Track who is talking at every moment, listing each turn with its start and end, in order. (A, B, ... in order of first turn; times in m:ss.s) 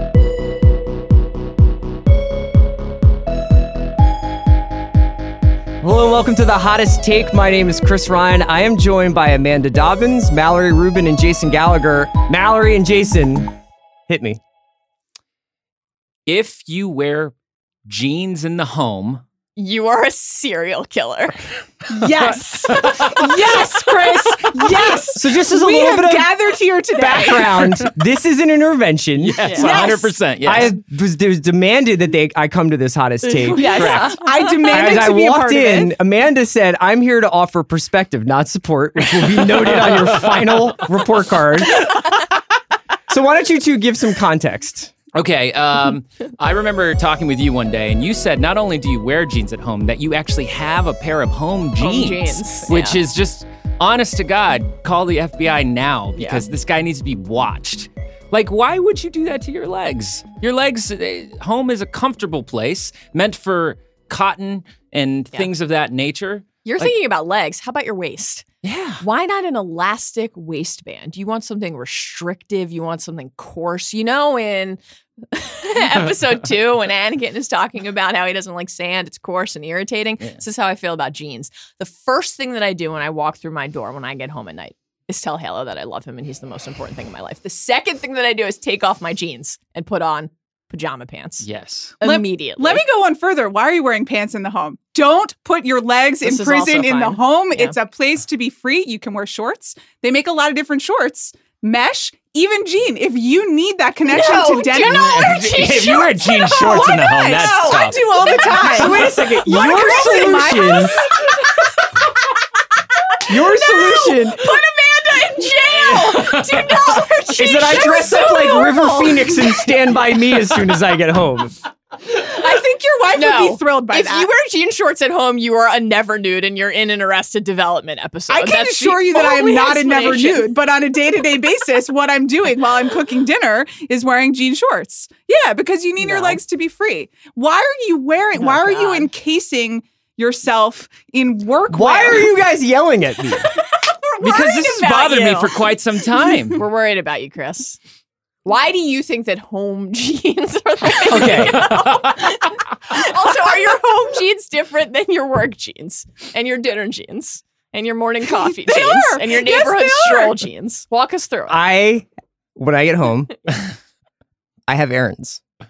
0:05.8-0:13.6 A
0:14.1-0:14.4 A
0:16.3-0:17.3 B
0:17.9-0:19.2 B
0:19.6-0:21.4 C
0:21.9-0:27.9 D
0:22.6-0:23.4 B
0:25.1-0:26.3 A
0:26.9-0:29.7 A
0:29.2-0:30.8 B
0:29.4-0:29.8 C
0:29.6-0:30.2 D
0:30.4-0:34.1 A
0:33.2-0:35.0 C
0:33.6-0:35.9 D
0:33.8-0:34.1 B
0:34.7-0:42.0 A
0:39.3-0:40.9 B
0:43.1-0:44.9 A
0:45.1-1:07.0 B
0:51.8-0:53.0 C
0:56.2-0:56.4 C
1:06.6-1:08.4 C
1:08.6-1:09.0 B
1:09.0-1:31.5 C
1:31.4-1:32.0 B
1:32.0-1:32.8 C
1:32.0-1:45.5 D
1:36.2-1:37.8 C
1:44.1-1:49.9 C
1:44.7-1:48.2 B
1:47.3-1:51.1 D
1:48.6-1:51.0 A
1:50.8-1:51.5 C
1:53.3-1:54.4 A
1:53.3-1:59.7 C
1:55.7-1:57.0 B
1:57.4-2:01.6 A
2:02.1-2:04.3 D
2:03.1-2:10.5 C
2:08.3-2:22.3 D
2:16.0-2:16.4 C
2:18.3-2:19.1 C
2:21.7-2:23.5 A
2:23.6-2:25.6 C
2:24.2-2:26.6 B
2:26.3-2:27.8 C
2:28.4-2:41.6 C
2:31.1-2:31.7 A
2:38.4-2:40.4 D
2:41.5-2:43.3 A
2:44.7-2:45.4 A